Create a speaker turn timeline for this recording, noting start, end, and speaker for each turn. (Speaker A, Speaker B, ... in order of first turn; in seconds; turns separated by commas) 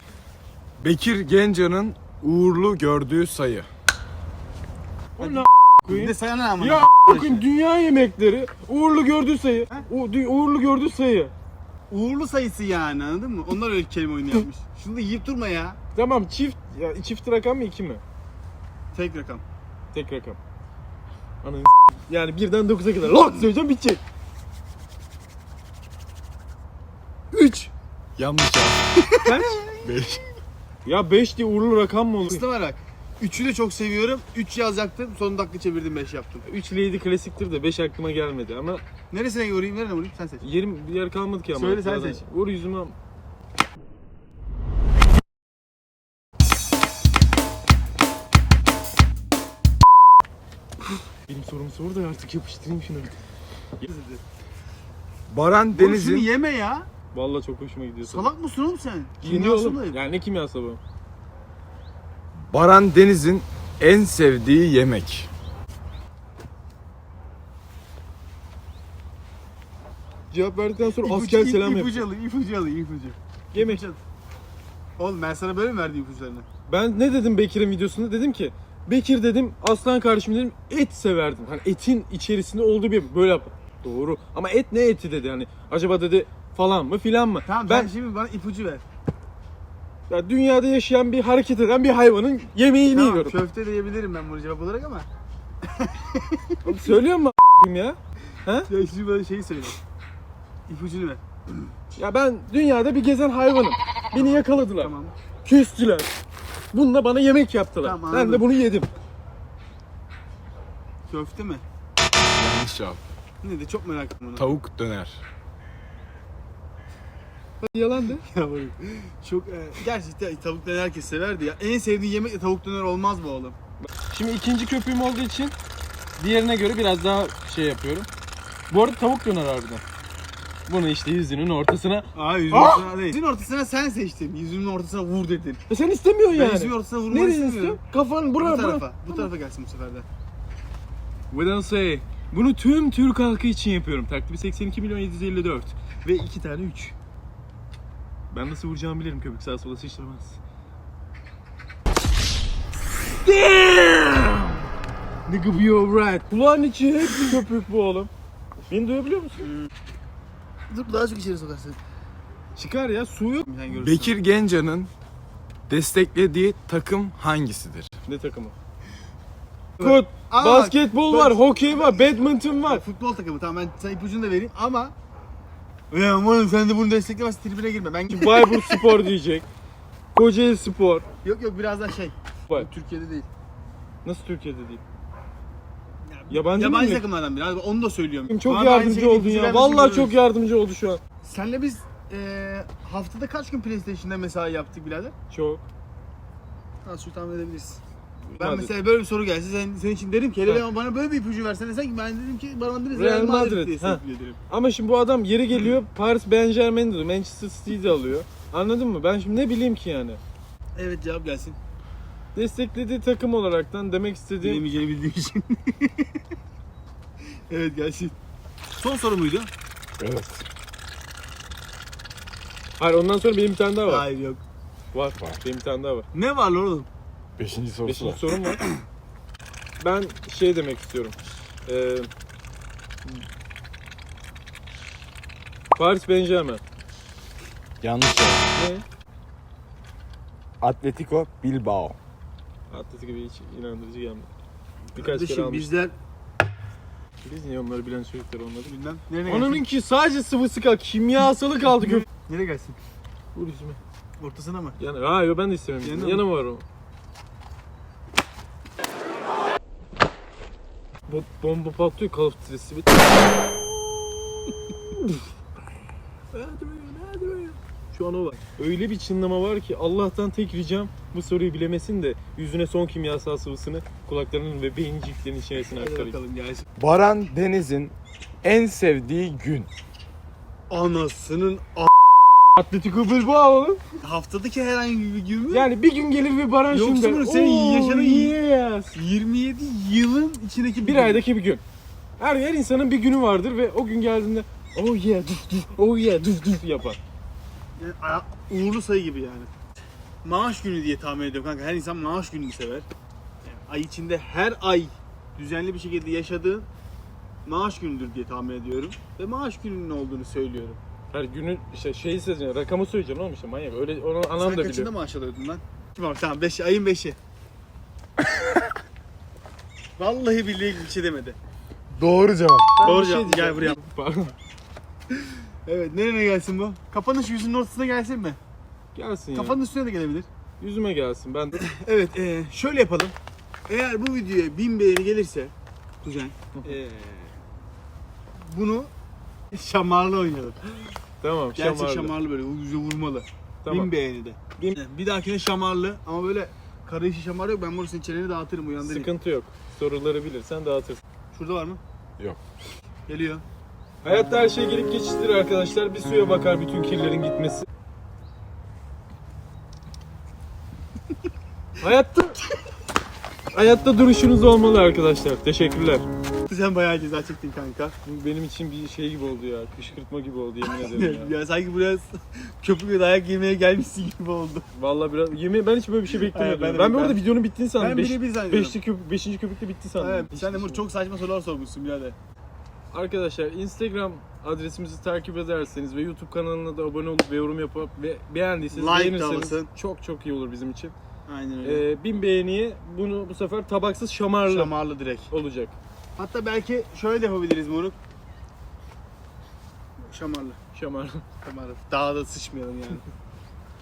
Speaker A: 0.8-3.7, Speaker B: 5.2-11.3, Speaker C: 5.2-7.4, Speaker C: 11.9-15.8, Speaker B: 15.9-18.0, Speaker C: 18.9-19.4, Speaker B: 19.9-20.4, Speaker B: 21.4-24.0, Speaker C: 27.3-27.7, Speaker A: 28.2-28.9, Speaker C: 29.0-29.8, Speaker B: 29.2-29.6, Speaker A: 29.8-30.2, Speaker B: 30.9-32.4, Speaker C: 32.2-36.4, Speaker B: 36.5-38.8, Speaker C: 39.1-40.5, Speaker B: 40.4-43.0, Speaker C: 41.5-42.2, Speaker B: 51.3-53.2, Speaker C: 53.8-54.2, Speaker A: 55.3-56.3, Speaker C: 55.7-56.9, Speaker B: 57.1-58.3, Speaker C: 58.0-60.0, Speaker B: 59.2-60.8, Speaker A: 62.5-65.3, Speaker B: 70.3-72.0, Speaker C: 70.9-74.0, Speaker B: 73.5-73.8, Speaker C: 75.0-76.5, Speaker B: 76.7-87.9, Speaker C: 87.5-88.8, Speaker B: 90.1-93.4, Speaker C: 92.9-95.1, Speaker C: 95.7-96.6, Speaker B: 96.6-98.7, Speaker C: 98.7-99.8, Speaker C: 100.7-101.7, Speaker B: 102.0-106.1, Speaker C: 104.1-105.1, Speaker B: 106.7-108.9, Speaker C: 107.8-108.5, Speaker C: 111.1-111.6, Speaker A: 112.4-113.0, Speaker C: 113.4-114.5, Speaker A: 114.4-115.2, Speaker B: 117.6-118.2, Speaker C: 118.3-123.6, Speaker B: 123.8-125.5, Speaker B: 126.2-128.1, Speaker B: 128.7-129.8, Speaker B: 130.7-132.9, Speaker C: 132.1-135.6, Speaker B: 135.7-139.3, Speaker C: 136.3-137.8, Speaker C: 138.4-140.1, Speaker B: 141.3-146.9, Speaker B: 148.3-150.4, Speaker B: 153.1-154.6, Speaker B: 155.3-158.1, Speaker B: 158.7-159.5, Speaker C: 160.7-161.8, Speaker B: 162.6-163.5, Speaker C: 163.4-164.2, Speaker A: 163.7-164.9, Speaker A: 165.7-167.9, Speaker B: 168.1-168.5, Speaker B: 169.8-172.8, Speaker C: 169.8-172.0, Speaker C: 172.6-174.9, Speaker C: 175.9-179.0, Speaker B: 178.1-179.5, Speaker B: 180.1-181.1, Speaker C: 181.2-183.3, Speaker B: 184.0-184.8, Speaker C: 186.1-190.2, Speaker B: 186.3-187.1, Speaker B: 188.3-191.0, Speaker C: 191.2-195.1, Speaker B: 195.3-195.6, Speaker C: 196.8-197.8, Speaker B: 198.3-198.7, Speaker C: 198.4-204.4, Speaker B: 202.9-210.2, Speaker C: 210.8-211.6, Speaker B: 212.3-214.6, Speaker C: 214.4-216.1, Speaker C: 217.5-218.2, Speaker C: 218.8-219.5, Speaker A: 220.0-220.5, Speaker B: 222.8-224.1, Speaker C: 223.9-224.4, Speaker B: 224.9-226.1, Speaker C: 226.1-226.9, Speaker A: 227.4-228.2, Speaker B: 227.8-228.6, Speaker B: 229.8-232.1, Speaker B: 235.8-236.6, Speaker A: 237.8-238.5, Speaker B: 238.6-238.8, Speaker A: 240.6-242.0, Speaker B: 242.7-244.3, Speaker B: 244.9-245.7, Speaker C: 245.0-246.0, Speaker B: 247.2-248.7, Speaker C: 248.7-249.6, Speaker B: 249.3-252.1, Speaker C: 251.7-252.8, Speaker B: 253.3-253.8, Speaker C: 254.2-254.8, Speaker B: 254.8-256.6, Speaker C: 255.8-256.2, Speaker B: 261.1-263.2, Speaker B: 266.3-276.2, Speaker C: 275.8-276.7, Speaker A: 276.8-279.7, Speaker C: 280.7-281.9, Speaker B: 282.6-283.8, Speaker C: 284.0-285.7, Speaker B: 285.5-288.9, Speaker C: 286.7-288.4, Speaker C: 288.9-291.2, Speaker B: 290.8-291.6, Speaker B: 292.2-297.0, Speaker C: 297.8-299.5, Speaker C: 300.2-302.9, Speaker C: 303.4-306.7, Speaker C: 307.5-310.8, Speaker B: 311.1-314.9, Speaker C: 314.4-317.2, Speaker C: 320.0-321.4, Speaker A: 321.9-322.8, Speaker C: 322.8-323.8, Speaker B: 322.8-324.4, Speaker C: 325.7-328.4, Speaker B: 328.9-329.6, Speaker C: 329.3-330.3, Speaker B: 330.6-331.6, Speaker C: 331.6-333.1, Speaker C: 333.7-337.3, Speaker C: 338.4-338.9, Speaker C: 339.5-340.6, Speaker B: 341.2-342.1, Speaker C: 341.6-349.1, Speaker B: 343.6-343.9, Speaker B: 348.8-351.0, Speaker C: 351.3-351.8, Speaker C: 353.1-353.4, Speaker B: 354.0-357.7, Speaker B: 361.8-362.4, Speaker B: 363.5-366.1, Speaker C: 366.5-367.9, Speaker B: 368.1-371.3, Speaker C: 370.7-372.1, Speaker C: 372.6-374.7, Speaker B: 374.8-380.8, Speaker C: 376.1-377.2, Speaker C: 377.8-378.8, Speaker C: 380.0-382.2, Speaker B: 382.9-390.9, Speaker C: 388.7-389.7, Speaker C: 391.3-391.9, Speaker B: 391.6-394.7, Speaker C: 394.4-395.3, Speaker B: 395.3-395.8, Speaker C: 396.2-398.0, Speaker C: 400.1-400.6, Speaker B: 400.7-401.2, Speaker C: 401.4-403.0